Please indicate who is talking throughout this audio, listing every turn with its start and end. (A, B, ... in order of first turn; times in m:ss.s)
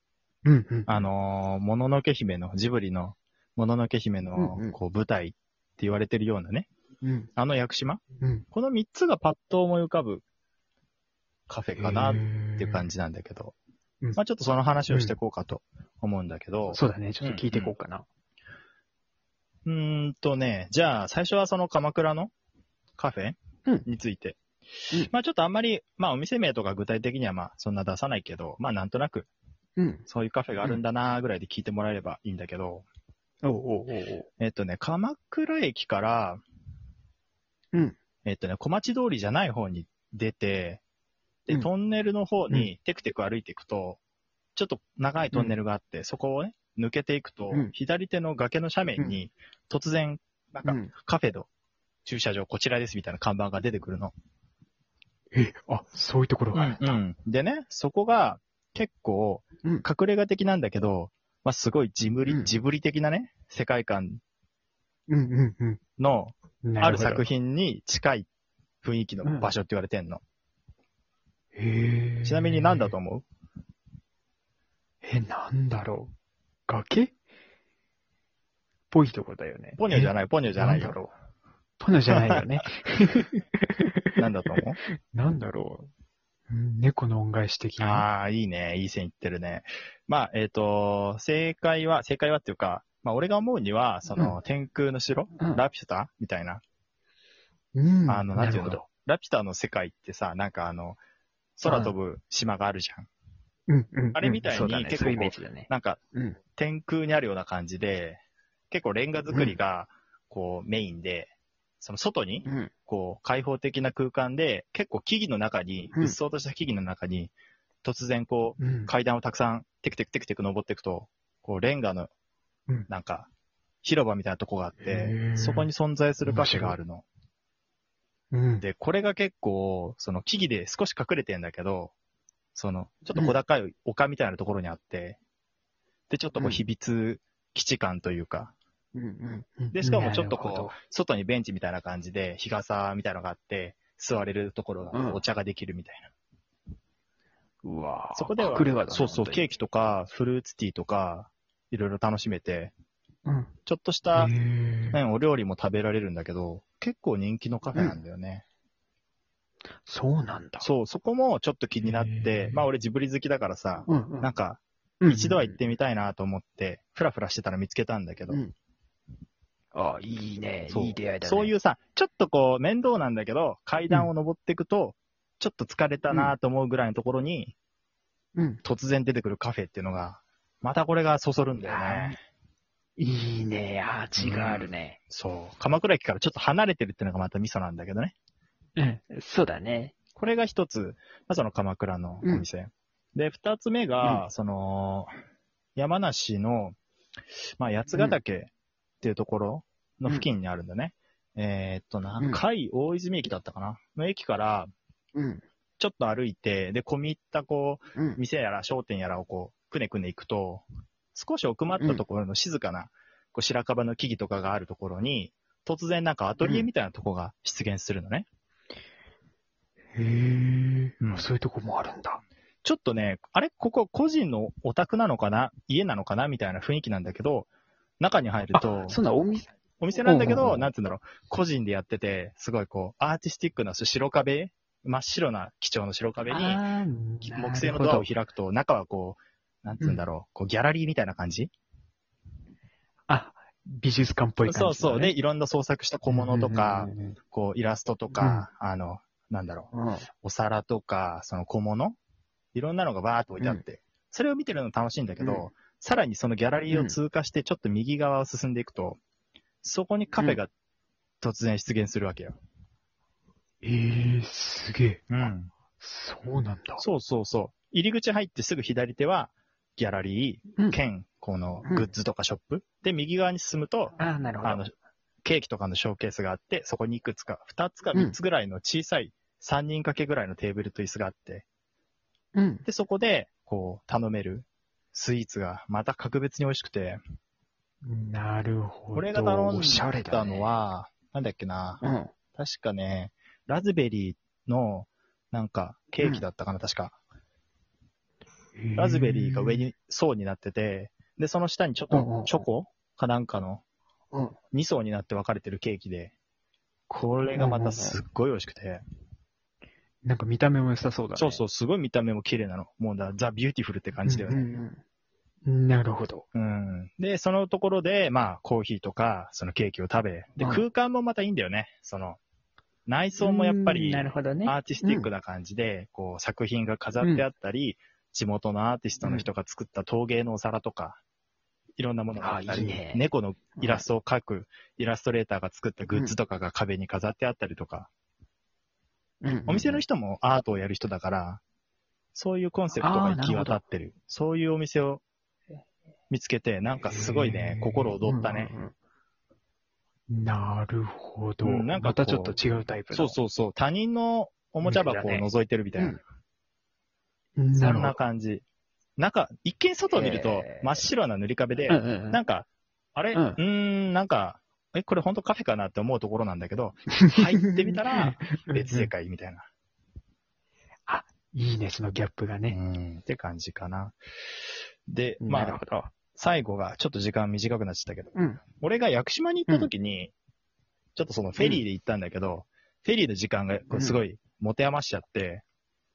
0:00.4-0:01.0 A
0:00.9-0:06.7 B
0:04.4-0:04.8 A
0:07.0-0:07.3 A
0:07.4-0:10.2 B
0:08.2-0:08.5 A
0:11.5-0:13.6 B
0:11.8-0:12.9 A
0:14.2-0:17.8 B
0:14.9-0:15.2 A
0:16.7-0:18.1 A
0:19.6-0:22.3 B
0:23.0-0:29.3 B
0:29.8-0:30.1 A
0:30.1-0:32.9 B
0:33.4-0:34.3 A
0:34.4-0:36.4 B
0:38.2-0:40.8 B
0:41.5-0:44.0 B
0:44.6-0:51.5 B
0:50.6-0:50.9 A
0:52.1-0:54.1 B
0:55.3-0:57.0 A
0:56.6-1:04.2 B
1:02.3-1:02.6 A
1:05.1-1:05.8 A
1:06.0-1:08.3 B
1:06.6-1:07.2 A
1:08.8-1:10.2 B
1:09.2-1:09.5 A
1:11.6-1:13.0 A
1:12.2-1:13.2 B
1:15.0-1:16.1 A
1:16.7-1:17.1 A
1:18.9-1:21.1 A
1:19.8-1:21.0 B
1:21.8-1:24.2 A
1:22.1-1:22.4 B
1:24.2-1:24.8 B
1:25.1-1:25.9 A
1:26.5-1:28.1 A
1:27.8-1:36.6 B
1:35.4-1:35.6 A
1:37.8-1:38.8 A
1:38.1-1:41.0 B
1:41.6-1:43.1 B
1:41.6-1:42.0 A
1:43.7-1:46.4 A
1:44.2-1:46.0 B
1:46.6-1:57.3 B
1:49.3-1:49.6 A
1:52.4-1:52.7 A
1:57.8-2:02.1 B
1:58.6-1:58.9 A
2:02.9-2:03.3 B
2:03.8-2:07.0 B
2:04.8-2:05.7 A
2:06.2-2:06.8 A
2:08.3-2:08.7 A
2:08.6-2:11.9 B
2:12.6-2:15.2 B
2:16.1-2:18.5 B
2:16.4-2:16.6 A
2:19.0-2:20.8 A
2:19.7-2:26.1 B
2:24.9-2:25.2 A
2:27.6-2:29.5 A
2:28.2-2:32.7 B
2:33.3-2:33.5 A
2:33.7-2:34.3 B
2:34.1-2:35.0 A
2:34.9-2:38.4 B
2:39.8-2:40.7 A
2:40.6-2:48.4 B
2:41.8-2:42.7 A
2:43.9-2:44.3 A
2:45.0-2:45.6 A
2:49.7-2:51.5 A
2:50.7-2:57.6 B
2:58.4-2:58.6 A
2:58.6-3:02.2 B
3:01.6-3:02.2 A
3:03.0-3:05.0 A
3:04.2-3:08.2 B
3:08.8-3:09.9 A
3:10.2-3:15.1 B
3:15.8-3:16.8 B
3:17.6-3:24.7 B
3:22.2-3:22.4 A
3:25.2-3:25.4 A
3:25.8-3:38.3 B
3:28.0-3:28.2 A
3:36.4-3:36.7 A
3:39.9-3:42.2 A
3:41.0-3:41.3 B
3:42.6-3:47.5 B
3:48.0-3:49.0 B
3:48.5-3:49.5 A
3:49.8-3:56.6 B
3:50.0-3:50.7 A
3:56.3-3:58.1 A
3:57.3-4:01.5 B
4:03.1-4:05.1 A
4:04.4-4:09.7 B
4:06.1-4:07.2 A
4:08.1-4:08.5 A
4:09.7-4:10.1 A
4:10.2-4:12.0 B
4:12.5-4:19.0 B
4:15.2-4:15.5 A
4:16.7-4:17.0 A
4:19.6-4:20.5 B
4:21.2-4:22.4 B
4:23.6-4:25.3 A
4:25.1-4:25.5 B
4:25.8-4:26.8 A
4:26.8-4:34.7 B
4:31.6-4:31.9 A
4:34.0-4:34.7 A
4:35.2-4:41.4 B
4:42.3-4:42.6 A
4:42.7-4:47.0 B
4:47.8-4:50.5 A
4:48.9-4:51.8 B
4:51.8-4:52.1 A
4:52.4-4:57.0 B
4:58.6-4:59.7 A
4:58.8-5:03.6 B
5:01.9-5:02.4 A
5:04.1-5:04.4 A
5:04.5-5:06.1 B
5:06.9-5:08.8 B
5:07.4-5:08.0 A
5:10.0-5:11.4 A
5:11.2-5:14.5 B
5:14.0-5:14.8 A
5:15.4-5:16.2 A
5:16.3-5:22.2 B
5:20.4-5:20.6 A
5:22.9-5:31.0 B
5:23.2-5:25.1 A
5:29.0-5:29.3 A
5:31.8-5:37.9 B
5:32.2-5:33.0 A
5:33.6-5:33.9 A
5:35.9-5:36.2 A
5:39.2-5:39.8 A
5:39.5-5:41.4 B
5:42.1-5:45.0 B
5:42.8-5:43.6 A
5:46.1-5:48.5 B
5:46.8-5:48.7 A
5:50.1-5:53.2 A
5:51.4-5:52.4 B
5:52.9-5:56.0 B
5:54.6-5:56.0 A
5:57.4-5:58.0 A
5:57.6-5:58.4 B
5:59.0-6:09.5 B
5:59.9-6:00.8 A
6:01.7-6:02.2 A
6:03.1-6:03.4 A
6:07.0-6:08.9 A
6:10.9-6:12.6 A
6:12.5-6:14.0 B
6:14.9-6:15.6 B
6:15.2-6:15.9 A
6:16.2-6:20.1 B
6:18.2-6:18.4 A
6:21.0-6:25.4 B
6:23.7-6:24.0 A